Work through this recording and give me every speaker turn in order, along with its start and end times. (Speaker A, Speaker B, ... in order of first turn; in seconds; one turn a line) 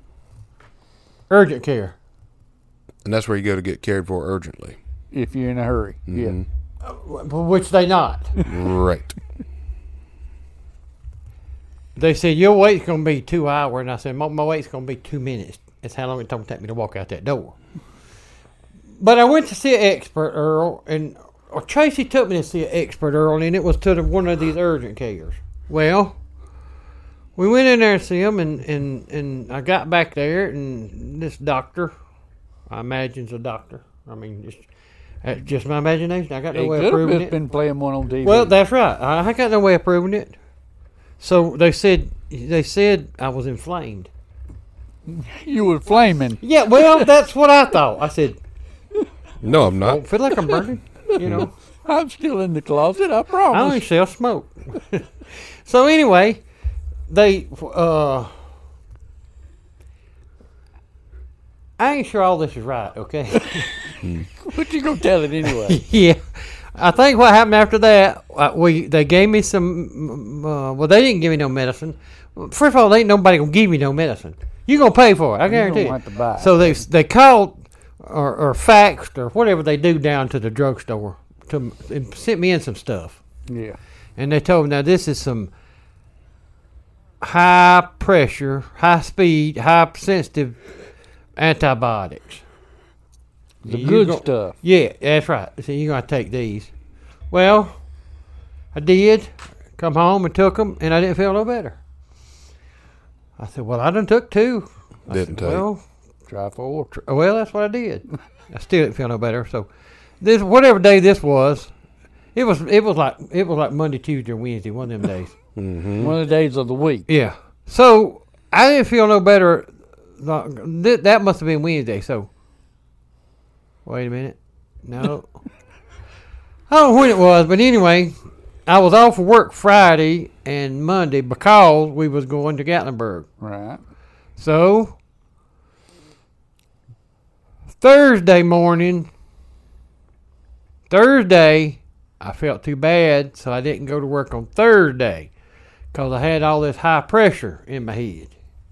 Speaker A: 1.3-1.9
Speaker B: 3.0-4.8
Speaker C: 5.1-6.3
Speaker B: 6.1-6.5
Speaker A: 6.8-8.3
Speaker B: 8.4-9.2
Speaker A: 11.9-17.6
Speaker A: 19.0-26.2
Speaker A: 27.4-31.9
Speaker A: 32.7-34.7
Speaker A: 35.2-37.4
Speaker C: 36.5-38.5
Speaker A: 38.2-40.4
Speaker A: 41.2-44.1
Speaker C: 45.1-47.0
Speaker A: 46.4-48.4
Speaker B: 49.4-50.0
Speaker A: 49.8-51.5
Speaker C: 51.3-53.8
Speaker A: 53.5-56.4
Speaker A: 57.1-58.4
Speaker A: 61.8-63.7
Speaker C: 64.4-65.8
Speaker A: 65.4-83.2
Speaker C: 75.5-76.8
Speaker C: 83.5-83.8
Speaker A: 84.2-85.5
Speaker A: 87.2-90.6
Speaker A: 91.4-92.4
Speaker C: 93.6-94.5
Speaker A: 93.7-96.7
Speaker A: 97.3-97.8
Speaker A: 98.7-101.8
Speaker A: 103.4-105.8
Speaker B: 105.1-105.6
Speaker C: 106.3-106.9
Speaker A: 106.9-109.7
Speaker A: 110.2-111.7
Speaker A: 112.3-115.3
Speaker B: 115.5-116.1
Speaker C: 116.0-117.0
Speaker A: 117.1-122.3
Speaker A: 123.8-125.3
Speaker A: 126.7-128.1
Speaker A: 128.7-133.3
Speaker C: 133.4-133.8
Speaker A: 134.4-135.0
Speaker A: 137.8-139.1
Speaker A: 140.9-145.3
Speaker A: 145.9-148.3